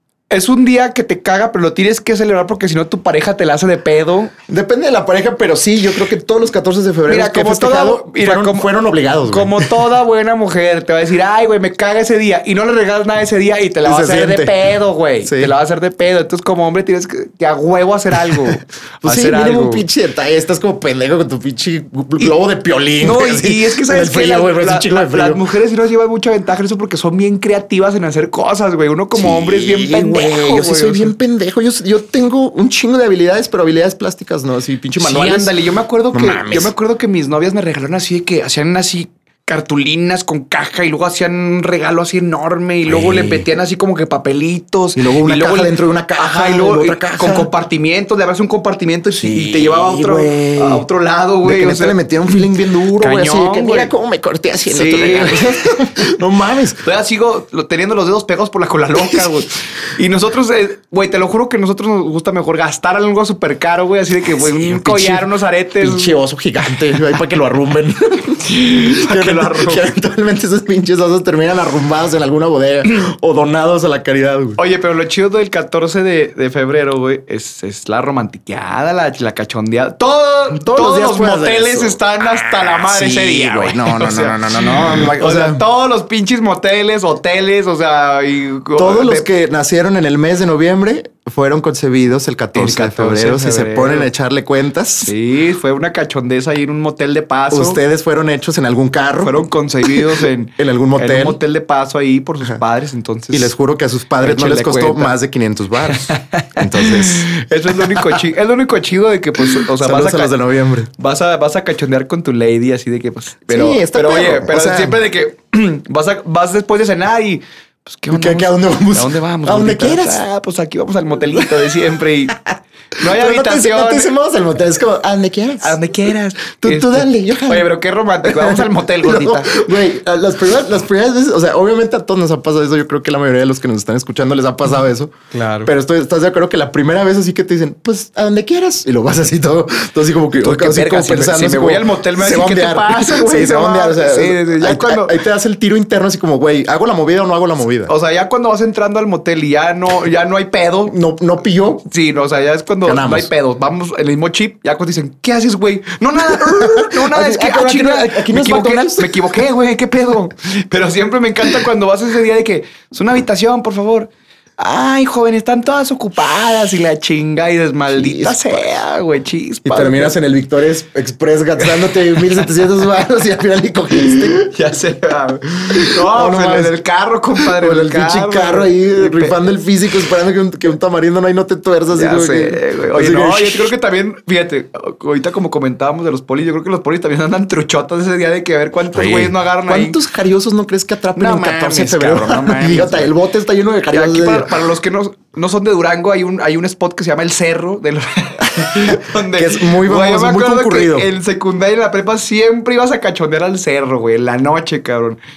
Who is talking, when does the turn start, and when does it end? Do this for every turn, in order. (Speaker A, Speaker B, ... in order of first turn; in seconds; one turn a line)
Speaker A: 0.3-4.3
Speaker B: 4.5-9.7
Speaker A: 7.1-8.7
Speaker A: 9.3-19.8
Speaker B: 13.8-14.5
Speaker B: 15.2-15.5
Speaker B: 19.0-25.4
Speaker A: 23.0-31.1
Speaker B: 29.1-35.5
Speaker A: 35.0-52.3
Speaker B: 36.1-36.7
Speaker B: 42.9-43.5
Speaker B: 45.0-47.5
Speaker B: 49.1-50.8
Speaker B: 51.4-56.8
Speaker A: 53.0-53.9
Speaker A: 54.7-56.0
Speaker A: 56.8-66.2
Speaker B: 59.0-59.3
Speaker B: 64.3-65.3
Speaker B: 65.8-74.6
Speaker A: 68.4-69.9
Speaker A: 74.6-89.3
Speaker B: 80.5-85.6
Speaker B: 88.8-95.1
Speaker A: 92.5-94.1
Speaker A: 95.0-97.8
Speaker B: 97.5-101.4
Speaker A: 99.2-103.5
Speaker B: 103.3-108.2
Speaker A: 104.2-105.1
Speaker A: 105.9-110.3
Speaker B: 109.4-110.9
Speaker A: 111.0-124.1
Speaker B: 113.5-115.0
Speaker B: 118.1-120.2
Speaker B: 121.3-121.7
Speaker B: 123.0-125.8
Speaker A: 125.6-129.7
Speaker B: 126.6-127.7
Speaker B: 128.2-147.9
Speaker A: 135.3-135.7
Speaker A: 140.3-145.2
Speaker A: 147.9-150.9
Speaker B: 150.9-151.9
Speaker A: 151.9-170.1
Speaker B: 152.8-153.3
Speaker B: 156.2-159.4
Speaker B: 167.9-168.7
Speaker B: 169.6-174.4
Speaker A: 171.6-172.5
Speaker A: 174.0-179.4
Speaker B: 175.7-176.7
Speaker B: 177.4-183.7
Speaker A: 181.9-190.0
Speaker B: 188.9-194.5
Speaker A: 191.1-193.1
Speaker A: 193.9-205.2
Speaker B: 198.5-201.1